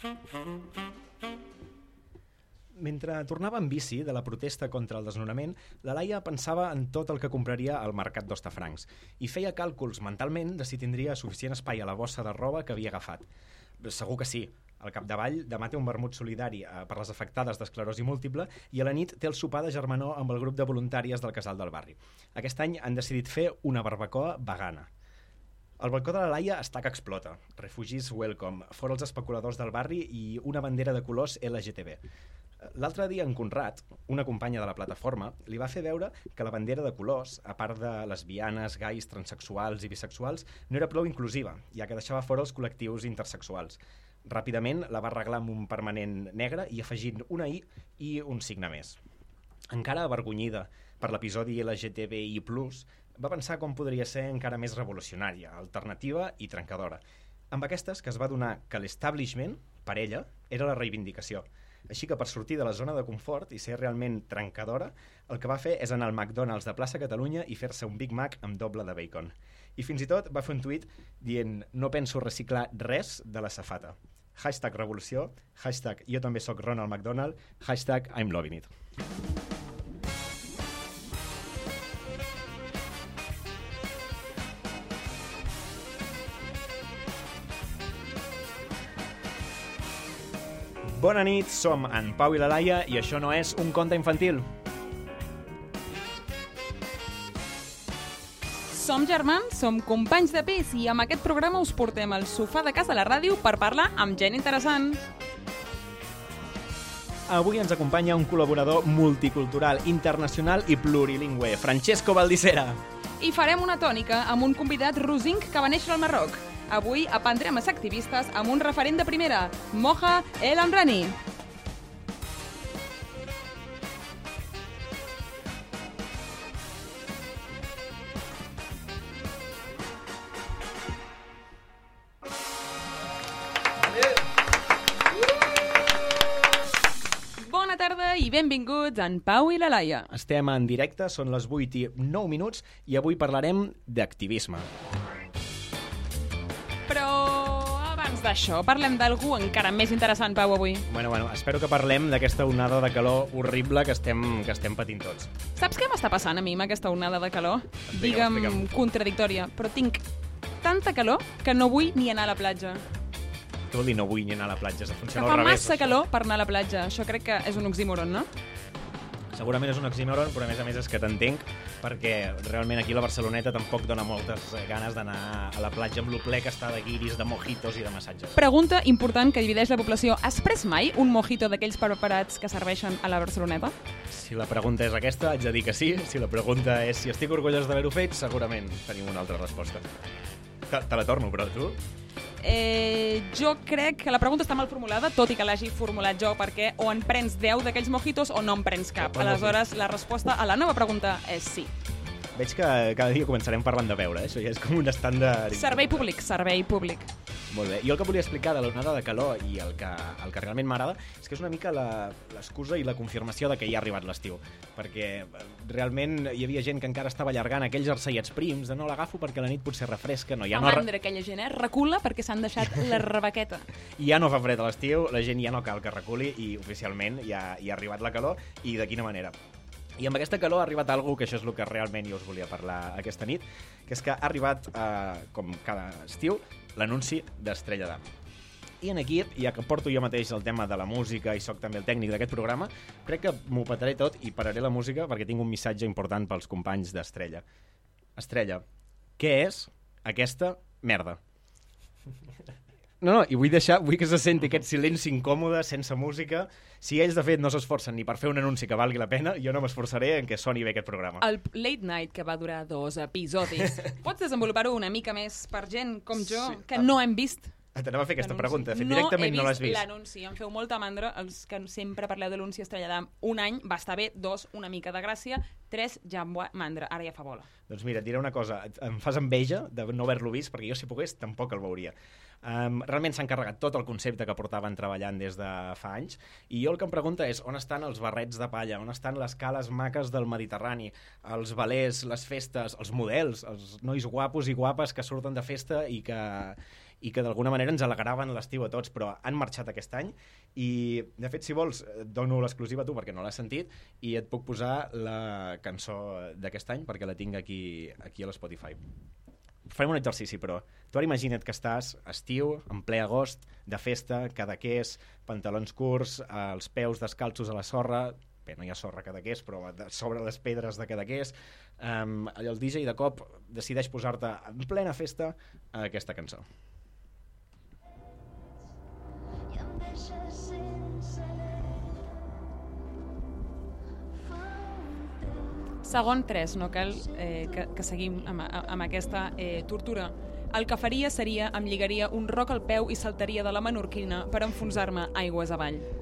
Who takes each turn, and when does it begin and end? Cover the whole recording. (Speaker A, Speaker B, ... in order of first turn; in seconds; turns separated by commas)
Speaker A: 2.8-13.2, Speaker A: 13.8-24.9, Speaker A: 25.8-32.0, Speaker A: 32.6-49.0, Speaker A: 49.7-57.0, Speaker A: 57.5-78.7, Speaker A: 90.8-94.5, Speaker B: 98.7-105.0, Speaker A: 107.3-112.8, Speaker B: 113.2-121.2, Speaker B: 137.4-140.1, Speaker A: 140.1-144.7, Speaker B: 146.9-150.9, Speaker A: 150.9-155.3, Speaker B: 155.6-160.1, Speaker A: 157.9-158.7, Speaker B: 160.6-162.8, Speaker A: 163.7-166.0, Speaker B: 165.1-168.3, Speaker A: 169.3-178.4, Speaker B: 178.3-183.7, Speaker A: 184.1-189.8, Speaker A: 190.7-191.8, Speaker B: 192.4-201.7, Speaker A: 199.0-199.6, Speaker A: 202.3-206.1, Speaker B: 205.5-207.1, Speaker A: 207.5-220.8, Speaker B: 220.5-223.7, Speaker A: 224.0-229.3, Speaker A: 230.0-238.0, Speaker A: 238.8-247.4, Speaker A: 248.2-248.6, Speaker A: 249.2-251.2, Speaker A: 253.0-261.2, Speaker B: 261.2-267.5, Speaker A: 266.3-266.9, Speaker A: 267.7-269.9, Speaker B: 268.2-277.5, Speaker A: 277.7-308.8, Speaker A: 309.7-326.4, Speaker B: 335.8-345.9